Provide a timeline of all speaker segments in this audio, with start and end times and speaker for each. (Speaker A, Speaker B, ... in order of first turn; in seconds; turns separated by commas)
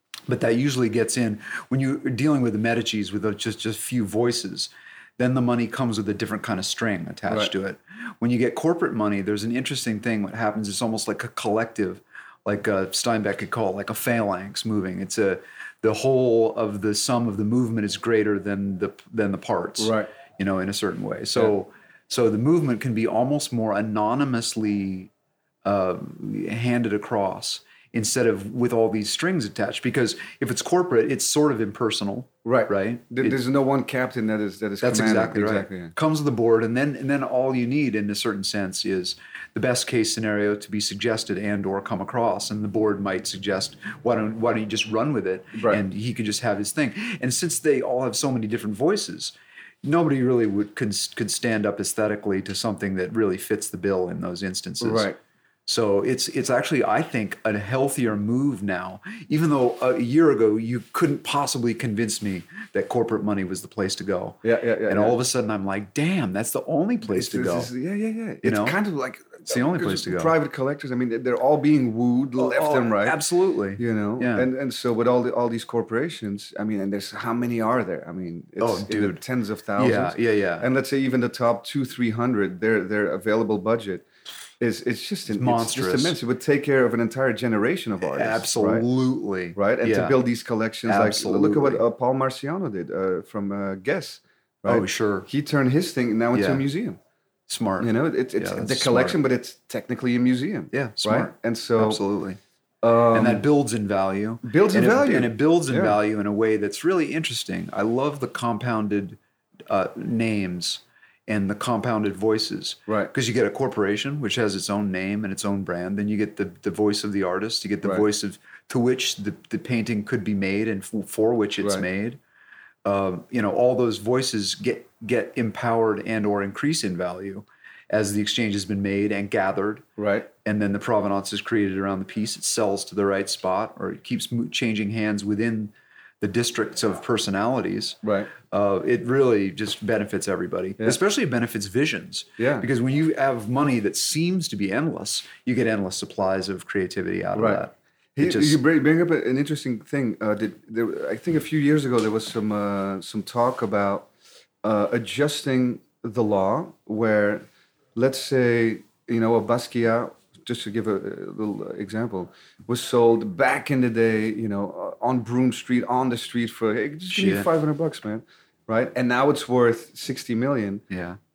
Speaker A: 0.3-25.1, Speaker B: 19.8-20.1, Speaker A: 25.6-33.4, Speaker B: 32.4-35.9, Speaker A: 34.8-55.1, Speaker B: 45.5-45.8, Speaker B: 54.8-55.2, Speaker A: 55.7-67.7, Speaker B: 64.4-65.2, Speaker B: 67.1-73.2, Speaker A: 68.4-68.8, Speaker A: 69.5-70.3, Speaker A: 72.4-74.5, Speaker B: 73.8-84.0, Speaker A: 78.6-79.2, Speaker A: 79.8-80.7, Speaker B: 84.6-88.8, Speaker A: 85.3-86.2, Speaker A: 88.0-90.2, Speaker B: 89.5-97.0, Speaker A: 90.9-91.8, Speaker A: 94.7-95.3, Speaker A: 96.3-96.6, Speaker A: 97.5-99.2, Speaker B: 97.8-102.0, Speaker A: 100.7-102.4, Speaker B: 102.8-103.4, Speaker A: 103.1-122.2, Speaker B: 104.4-106.0, Speaker A: 122.8-129.9, Speaker B: 130.0-130.3, Speaker A: 130.4-148.6, Speaker B: 138.0-138.3, Speaker B: 142.4-142.7, Speaker B: 147.3-147.6, Speaker B: 148.2-154.1, Speaker B: 154.6-170.8, Speaker A: 167.1-167.5, Speaker A: 170.9-171.2